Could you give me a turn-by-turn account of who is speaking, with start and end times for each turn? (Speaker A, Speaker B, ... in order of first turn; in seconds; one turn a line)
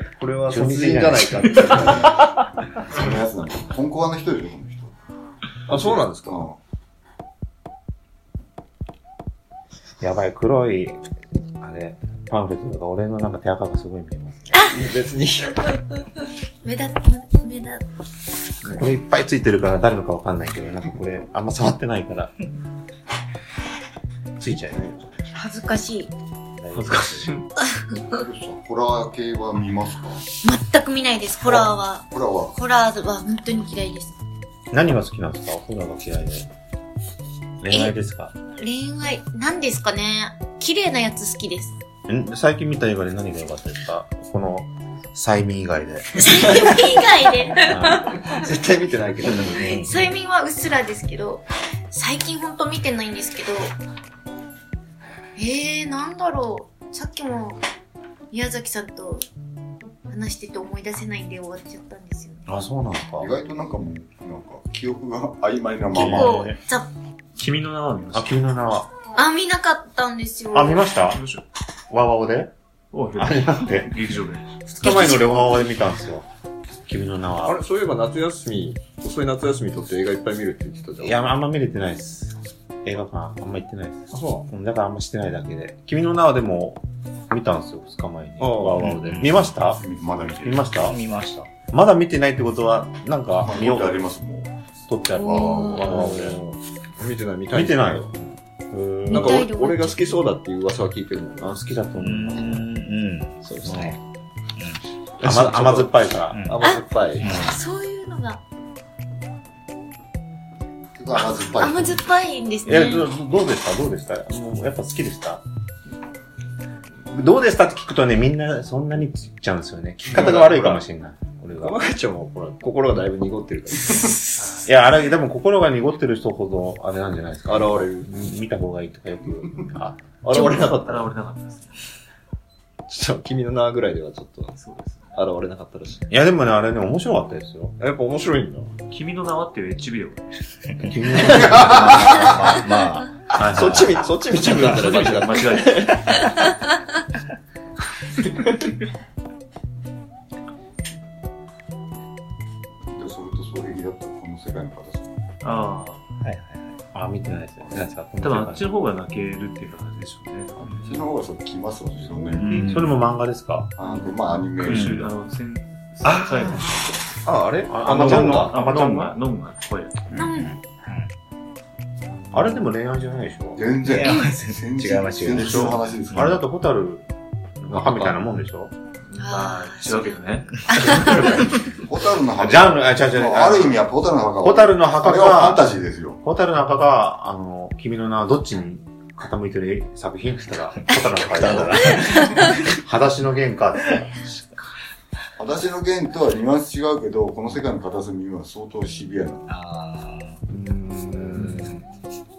Speaker A: 0.2-2.1
Speaker B: 0.4-1.9
Speaker C: 1.6-2.3
Speaker D: 2.9-4.9
Speaker A: 5.7-6.5
Speaker D: 5.7-6.6
Speaker B: 10.0-11.0
Speaker B: 11.6-14.5
Speaker A: 14.7-15.8
Speaker E: 16.6-17.8
Speaker B: 18.6-22.3
Speaker B: 24.4-25.0
Speaker E: 25.3-26.1
Speaker B: 26.6-27.3
Speaker C: 26.7-27.5
Speaker D: 28.1-30.2
Speaker E: 30.4-32.0
Speaker D: 31.4-32.6
Speaker E: 32.5-34.1
Speaker B: 34.7-36.5
Speaker B: 37.6-38.3
Speaker E: 38.6-41.8
Speaker B: 42.1-46.3
Speaker E: 46.2-48.1
Speaker A: 46.3-46.7
Speaker B: 47.7-48.1
Speaker A: 47.8-50.1
Speaker E: 49.5-53.7
Speaker E: 55.4-57.6
Speaker E: 58.3-59.2
Speaker E: 60.1-62.4
Speaker B: 62.5-63.3
Speaker D: 63.2-66.5
Speaker B: 65.9-66.6
Speaker E: 66.0-66.9
Speaker C: 67.4-68.3
Speaker B: 68.1-68.9
Speaker E: 69.2-70.8
Speaker B: 70.5-71.2
Speaker C: 71.1-71.4
Speaker B: 71.9-72.5
Speaker C: 72.9-74.5
Speaker B: 73.2-73.9
Speaker B: 74.6-76.2
Speaker E: 74.8-75.7
Speaker B: 76.9-77.6
Speaker A: 77.4-81.2
Speaker B: 81.0-91.0
Speaker A: 84.1-84.5
Speaker A: 88.4-88.9
Speaker F: 88.8-89.5
Speaker D: 89.8-90.7
Speaker F: 90.9-91.5
Speaker A: 91.0-91.4
Speaker B: 91.7-94.0
Speaker D: 93.4-94.5
Speaker B: 94.9-96.4
Speaker D: 95.2-95.8
Speaker E: 95.2-95.9
Speaker A: 95.7-98.1
Speaker B: 97.5-99.4
Speaker A: 99.0-101.5
Speaker E: 99.1-100.1
Speaker B: 101.4-102.7
Speaker F: 102.0-104.0
Speaker B: 103.6-104.0
Speaker A: 105.2-107.5
Speaker B: 105.2-106.5
Speaker E: 107.5-108.4
Speaker D: 111.0-112.0
Speaker E: 111.6-113.1
Speaker B: 112.7-115.4
Speaker B: 117.0-121.8
Speaker A: 120.1-120.8
Speaker A: 121.6-124.2
Speaker C: 124.4-124.7
Speaker B: 124.7-130.0
Speaker A: 127.5-128.1
Speaker A: 130.2-131.1
Speaker C: 130.3-131.8
Speaker A: 132.9-134.6
Speaker C: 134.6-135.2
Speaker A: 135.1-136.1
Speaker B: 136.1-137.7
Speaker A: 137.8-138.7
Speaker C: 138.9-140.4
Speaker B: 140.8-142.6
Speaker A: 141.3-142.8
Speaker F: 141.5-143.1
Speaker B: 143.3-144.1
Speaker A: 143.4-146.5
Speaker C: 144.3-146.3
Speaker D: 152.9-155.2
Speaker C: 155.4-156.0
Speaker A: 156.2-156.6
Speaker B: 156.9-158.7
Speaker C: 158.2-161.0
Speaker D: 160.6-162.5
Speaker B: 162.4-163.7
Speaker A: 162.6-162.9
Speaker D: 163.8-165.2
Speaker C: 164.2-167.0
Speaker A: 166.1-166.5
Speaker A: 167.2-168.6
Speaker B: 167.7-169.2
Speaker C: 167.9-170.1
Speaker E: 170.2-170.5
Speaker F: 170.3-171.1
Speaker B: 172.3-173.6
Speaker D: 173.6-176.4
Speaker F: 173.8-175.5
Speaker B: 175.3-177.0
Speaker A: 175.4-175.7
Speaker B: 177.6-178.7
Speaker A: 177.7-178.2
Speaker E: 179.2-180.2
Speaker C: 179.2-181.3
Speaker E: 180.7-181.3
Speaker D: 181.4-186.2
Speaker B: 182.4-183.8
Speaker B: 184.4-185.7
Speaker B: 186.2-194.2
Speaker F: 191.4-192.3
Speaker A: 191.4-192.6
Speaker D: 195.4-199.4
Speaker F: 199.5-200.3
Speaker A: 200.8-201.8